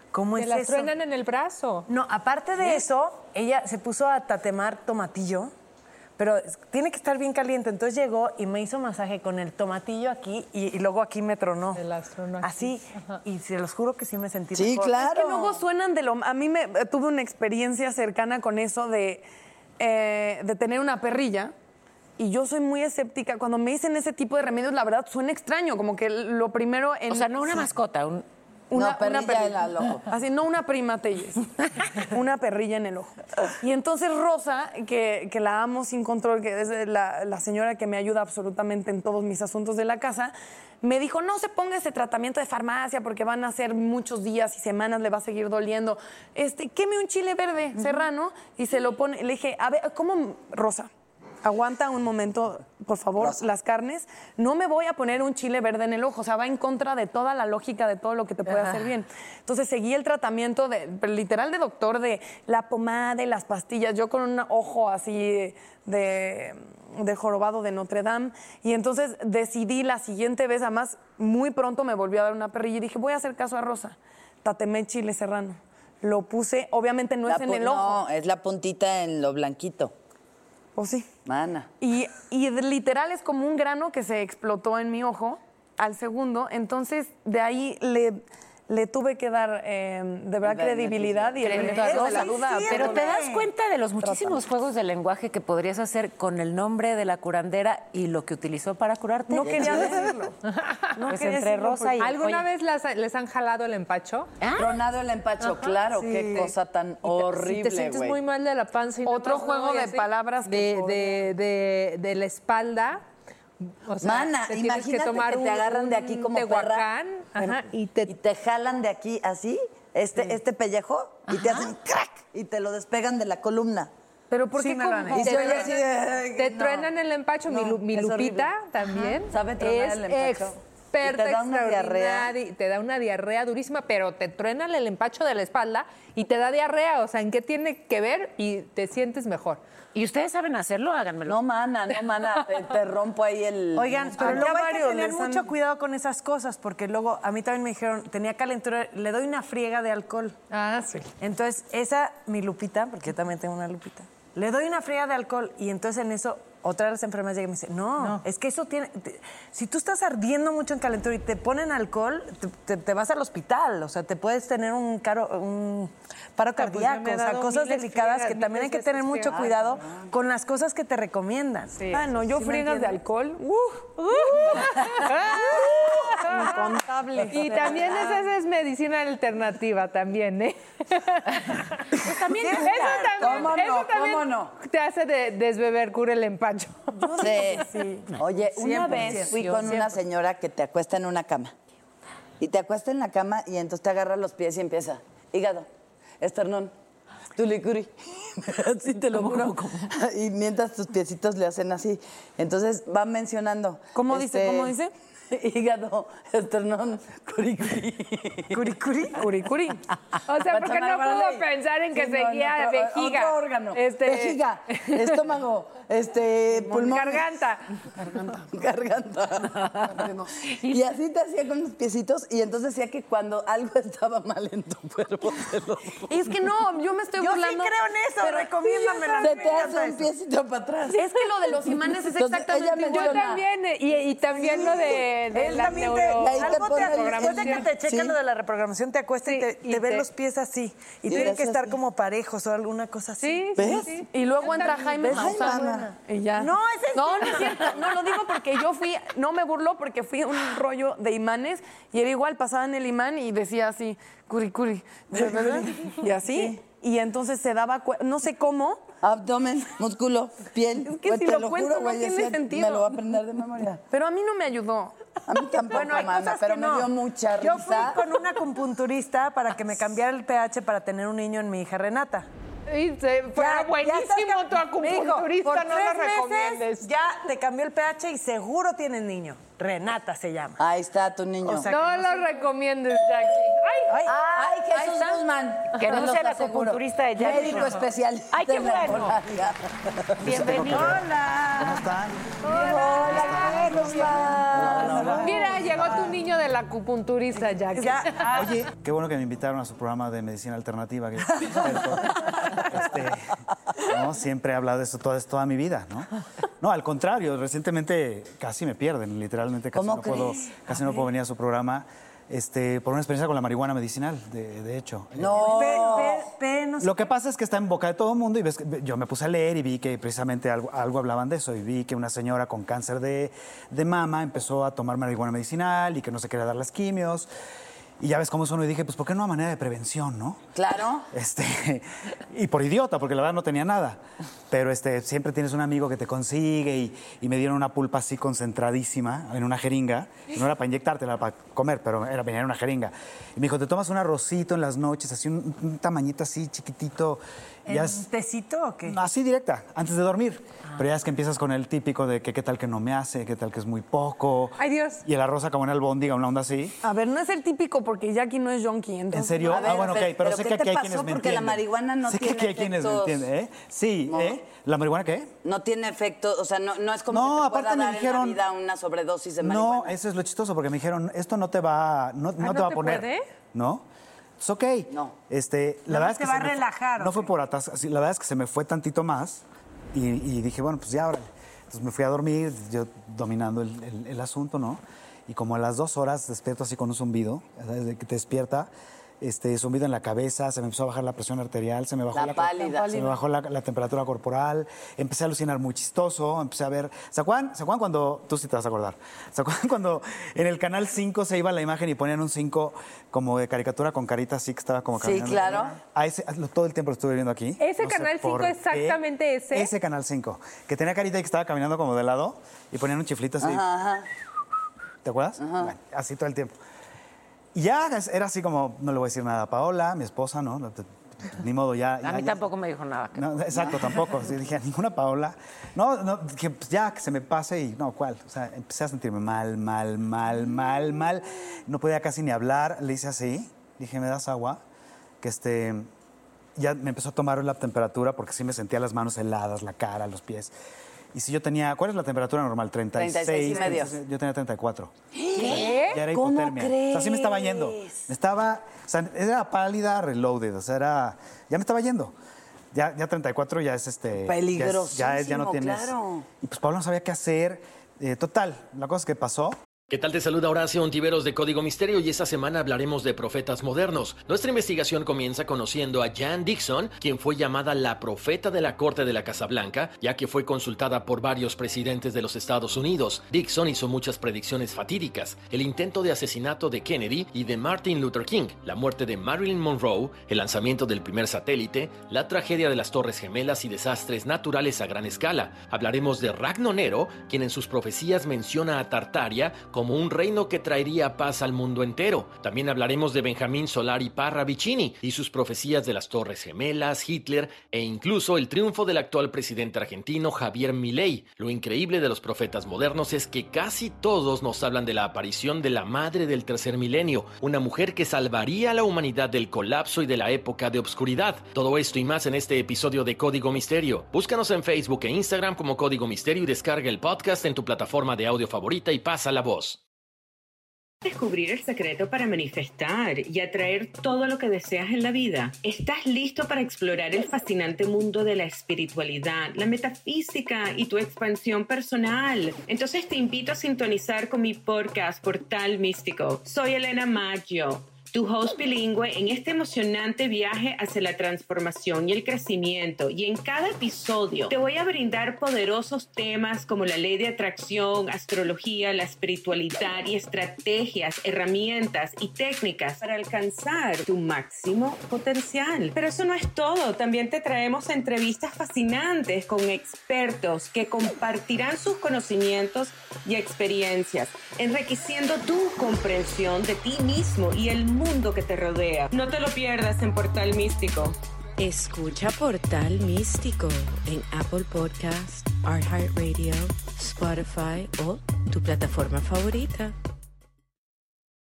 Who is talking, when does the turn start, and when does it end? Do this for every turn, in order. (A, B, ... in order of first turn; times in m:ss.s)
0:00.1-0:00.9 A
0:00.3-0:01.9 B
0:01.9-0:05.5 A
0:06.2-0:11.8 A
0:11.7-0:13.2 B
0:12.4-0:15.0 A
0:14.5-0:15.6 C
0:14.9-0:19.2 D
0:19.8-0:21.5 D
0:22.2-0:27.7 D
0:27.1-0:28.2 E
0:28.7-0:50.9 D
0:28.7-0:30.1 C
0:51.4-1:18.0 D
1:17.2-1:19.9 C
1:20.8-1:21.1 D
1:21.2-1:21.7 C
1:21.8-1:33.3 D
1:30.4-1:32.1 C
1:31.4-1:32.4 B
1:31.5-1:33.4 A
1:32.7-1:40.0 E
1:34.0-1:34.4 D
1:39.3-1:40.3 D
1:39.4-1:39.9 C
1:40.5-1:40.9 B
1:41.0-1:42.4 E
1:41.0-1:42.1 D
1:42.0-1:44.3 B
1:44.4-1:44.8 E
1:44.5-1:48.2 C
1:45.4-1:45.7 B
1:47.0-1:53.0 B
1:49.0-1:51.2 D
1:53.8-1:58.1 B
1:54.0-1:56.9 C
1:58.1-2:03.9 C
2:01.3-2:01.7 E
2:04.3-2:05.8 D
2:04.6-2:05.4 A
2:05.1-2:19.6 B
2:05.1-2:06.9 C
2:07.5-2:08.5 C
2:09.3-2:12.3 C
2:19.9-2:21.4 E
2:21.2-2:24.5 C
2:23.7-2:30.4 A
2:24.1-2:25.5 D
2:30.5-2:31.0 B
2:31.2-2:51.8 A
2:38.0-2:38.2 B
2:46.6-2:49.8 B
2:51.8-2:52.9 B
2:51.9-2:58.2 D
2:54.0-3:07.2 B
3:02.0-3:03.1 E
3:02.3-3:03.2 A
3:03.2-3:04.5 C
3:07.0-3:07.7 A
3:07.1-3:08.0 D
3:07.2-3:11.5 C
3:08.6-3:09.4 A
3:08.8-3:09.4 E
3:09.6-3:09.9 B
3:12.4-3:15.7 C
3:16.2-3:16.7 C
3:17.3-3:24.7 C
3:19.2-3:19.5 E
3:23.9-3:24.9 D
3:25.3-3:28.6 C
3:28.6-3:29.2 A
3:29.0-3:29.8 D
3:30.2-3:35.0 B
3:30.4-3:37.3 C
3:36.6-3:37.6 B
3:38.2-3:46.2 C
3:39.9-3:40.2 D
3:46.1-3:49.7 D
3:47.2-3:50.1 A
3:49.2-3:53.4 C
3:50.9-3:53.4 D
3:52.9-3:57.7 B
3:54.4-3:55.9 D
3:55.3-4:03.8 A
3:56.2-3:58.2 C
3:59.2-4:00.1 B
4:01.1-4:01.8 C
4:03.2-4:05.3 B
4:03.6-4:04.0 C
4:04.0-4:18.8 D
4:05.0-4:05.9 C
4:06.4-4:07.9 A
4:15.2-4:15.6 C
4:19.0-4:23.8 C
4:20.8-4:23.0 D
4:23.9-4:25.0 D
4:25.3-4:28.0 C
4:25.7-4:32.3 A
4:32.7-4:36.9 B
4:33.4-4:40.6 A
4:40.6-4:41.7 C
4:41.4-4:42.3 A
4:41.7-4:44.1 B
4:43.9-4:44.2 A
4:44.0-4:51.8 C
4:45.7-4:49.2 E
4:50.2-4:52.4 F
4:50.2-4:51.0 E
4:52.4-4:54.1 B
4:52.4-4:56.0 C
4:53.0-4:55.2 F
4:53.3-4:56.1 A
4:55.1-4:58.4 B
4:57.7-4:58.5 A
4:58.3-5:06.1 F
5:06.6-5:15.8 F
5:09.7-5:10.5 C
5:15.2-5:16.3 C
5:15.4-5:17.1 A
5:16.8-5:27.3 F
5:28.0-5:30.4 F
5:30.5-5:31.1 C
5:31.1-5:48.1 F
5:47.7-5:49.0 A
5:48.8-5:56.8 F
5:54.6-5:55.0 B
5:56.8-6:00.0 D
5:59.1-6:05.3 F
5:59.5-6:03.2 C
6:04.1-6:04.4 C
6:05.4-6:09.9 C
6:07.1-6:08.4 F
6:09.4-6:13.8 F
6:12.4-6:13.2 B
6:14.4-6:28.7 F
6:15.9-6:17.3 A
6:29.2-6:53.6 F
6:32.1-6:33.1 C
6:45.0-6:45.8 C
6:47.6-6:49.7 B
6:53.4-6:54.1 C
6:55.0-6:56.5 F
6:55.4-6:55.7 C
6:57.5-7:02.4 F
7:02.0-7:03.4 E
7:03.1-7:14.6 F
7:15.2-7:15.9 F
7:16.6-7:20.5 F
7:21.1-7:32.1 F
7:23.0-7:23.9 C
7:25.1-7:28.0 C
7:25.4-7:25.7 E
7:32.7-7:39.6 F
7:34.2-7:36.3 C
7:39.9-8:39.8 G
8:41.0-9:31.2 H
9:31.6-9:39.9 I